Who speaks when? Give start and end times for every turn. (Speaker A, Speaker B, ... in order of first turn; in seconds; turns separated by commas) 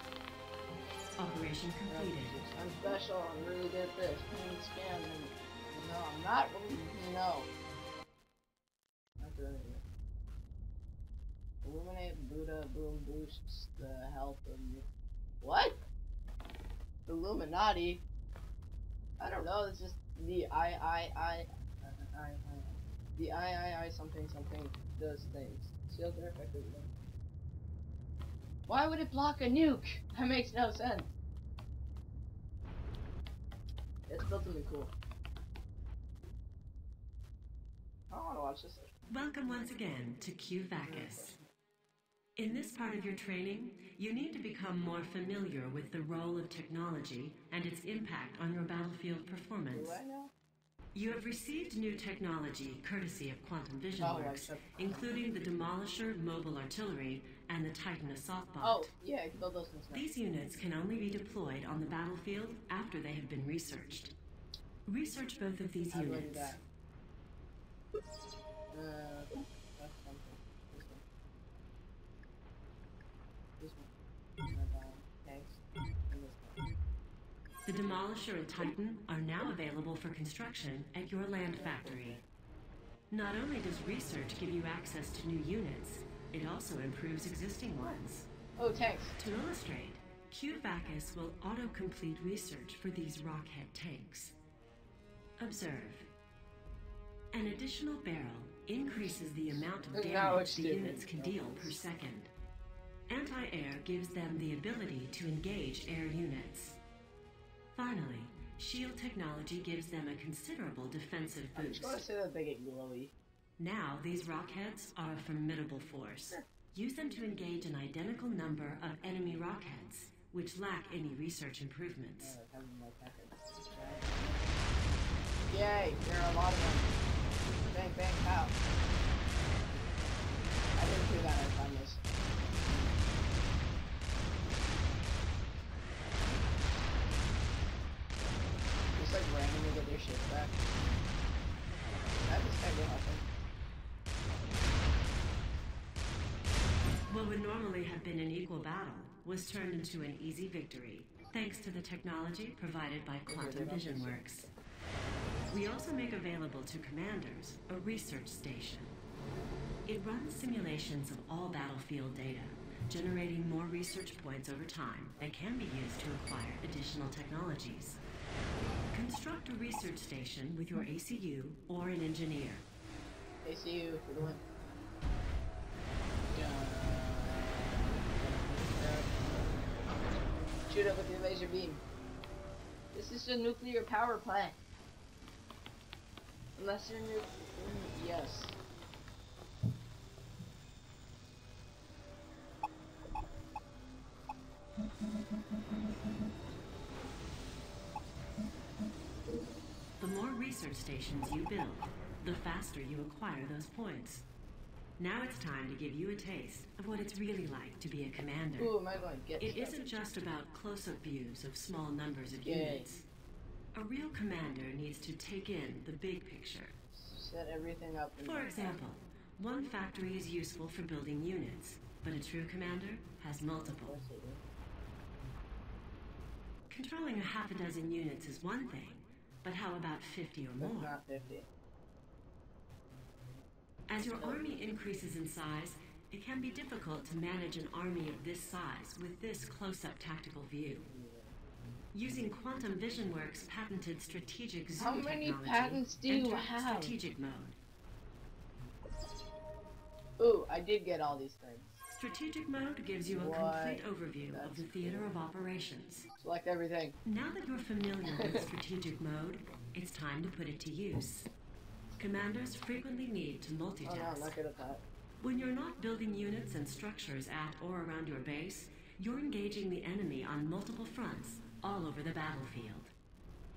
Speaker A: 1.2-2.4, Speaker B: 1.9-7.5, Speaker B: 9.2-9.8, Speaker B: 11.6-14.9, Speaker B: 15.4-15.8, Speaker B: 17.1-18.0, Speaker B: 19.2-26.9, Speaker B: 28.7-31.1, Speaker B: 34.1-34.9, Speaker B: 38.1-38.9, Speaker A: 39.1-41.4, Speaker B: 40.8-41.5, Speaker A: 42.4-50.0, Speaker B: 49.7-50.3, Speaker A: 50.9-58.9, Speaker B: 54.0-54.8, Speaker B: 58.6-60.1, Speaker A: 59.9-64.1, Speaker A: 64.9-66.6, Speaker B: 65.9-66.6, Speaker B: 68.7-71.0, Speaker B: 73.6-73.9, Speaker B: 74.5-76.7, Speaker A: 77.7-82.2, Speaker A: 83.1-88.3, Speaker B: 88.6-89.2, Speaker A: 89.2-94.4, Speaker A: 95.4-96.1, Speaker A: 97.3-102.3, Speaker B: 98.8-101.8, Speaker A: 103.1-106.8, Speaker A: 107.8-112.0, Speaker B: 111.5-113.1, Speaker A: 113.6-122.4, Speaker B: 122.2-124.5, Speaker B: 125.5-126.9, Speaker B: 127.7-128.6, Speaker B: 130.8-132.0, Speaker B: 138.9-140.6, Speaker B: 142.3-143.2, Speaker A: 147.1-154.4, Speaker B: 153.3-154.2, Speaker A: 155.5-158.9, Speaker A: 159.9-168.0, Speaker A: 168.9-172.7, Speaker B: 173.4-174.4, Speaker B: 176.3-181.8, Speaker B: 182.9-184.6, Speaker B: 186.6-188.6, Speaker A: 200.0-204.2, Speaker A: 205.0-208.7, Speaker B: 208.6-209.9, Speaker A: 209.4-213.1, Speaker B: 212.4-212.9, Speaker A: 213.7-216.8, Speaker B: 216.9-218.8, Speaker A: 218.2-224.0, Speaker B: 223.5-224.4, Speaker A: 226.7-230.9, Speaker B: 230.6-231.5, Speaker A: 233.9-240.9, Speaker B: 234.0-234.4, Speaker B: 240.8-241.4, Speaker A: 241.9-247.6, Speaker B: 244.8-247.0, Speaker B: 250.2-251.8, Speaker A: 252.0-256.1, Speaker B: 253.1-255.1, Speaker B: 256.2-257.0, Speaker A: 257.1-261.3, Speaker B: 258.0-258.5, Speaker A: 262.0-264.4, Speaker B: 263.8-264.8, Speaker A: 265.2-272.9